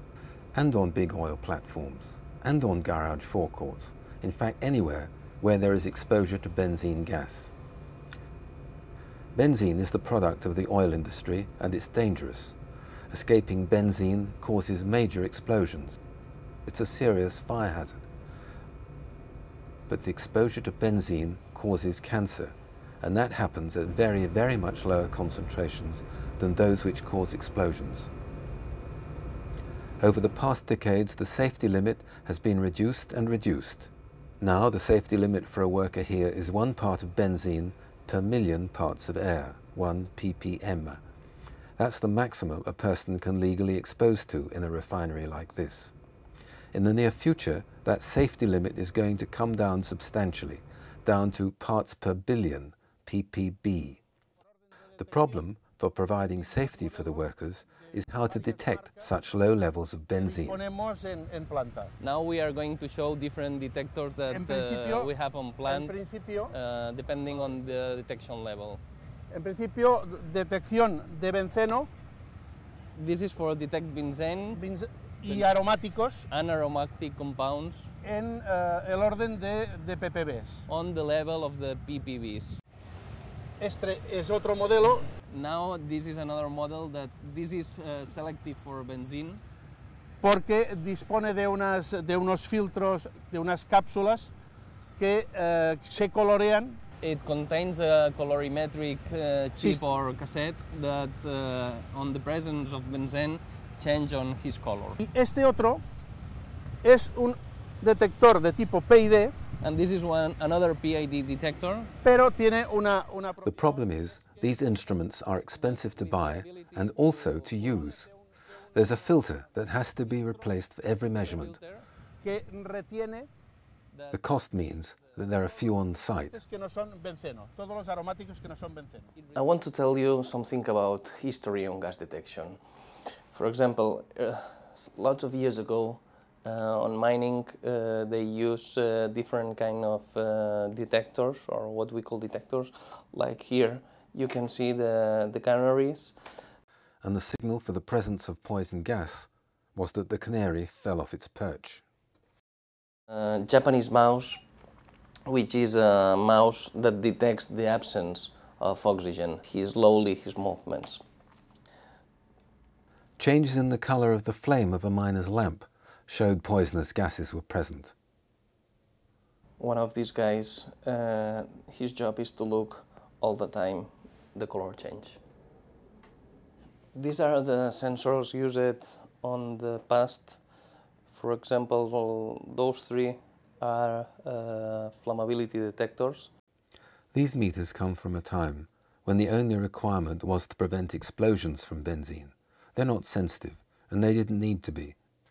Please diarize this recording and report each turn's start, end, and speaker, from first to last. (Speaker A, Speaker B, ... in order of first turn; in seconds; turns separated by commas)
Speaker A: 0.5-7.5, Speaker A: 9.3-12.6, Speaker A: 13.1-16.0, Speaker A: 16.7-18.1, Speaker A: 19.9-28.1, Speaker A: 30.0-41.0, Speaker A: 41.8-45.9, Speaker A: 46.7-54.0, Speaker A: 55.0-60.6, Speaker B: 56.5-57.2, Speaker B: 58.2-59.1, Speaker B: 60.2-61.9, Speaker C: 62.0-65.9, Speaker B: 64.3-65.1, Speaker B: 65.7-66.5, Speaker C: 66.5-68.8, Speaker B: 69.3-71.9, Speaker C: 72.9-74.6, Speaker B: 74.5-76.3, Speaker C: 76.3-77.9, Speaker B: 78.0-80.7, Speaker C: 80.7-82.6, Speaker B: 83.6-85.1, Speaker C: 85.3-89.4, Speaker B: 90.2-94.3, Speaker B: 95.0-96.8, Speaker C: 97.0-105.0, Speaker B: 105.0-105.8, Speaker B: 106.8-109.3, Speaker C: 109.6-111.9, Speaker B: 112.0-114.2, Speaker A: 113.4-118.1, Speaker C: 115.6-117.4, Speaker A: 118.7-121.6, Speaker C: 121.3-121.8, Speaker B: 122.2-123.3, Speaker A: 124.1-126.4, Speaker B: 126.3-129.1, Speaker C: 129.3-132.6, Speaker C: 133.3-146.2, Speaker A: 147.0-151.8, Speaker C: 153.1-154.4, Speaker C: 155.2-161.0, Speaker A: 163.2-167.9, Speaker C: 169.6-175.2, Speaker C: 176.9-180.4, Speaker C: 181.1-186.3, Speaker A: 187.1-195.0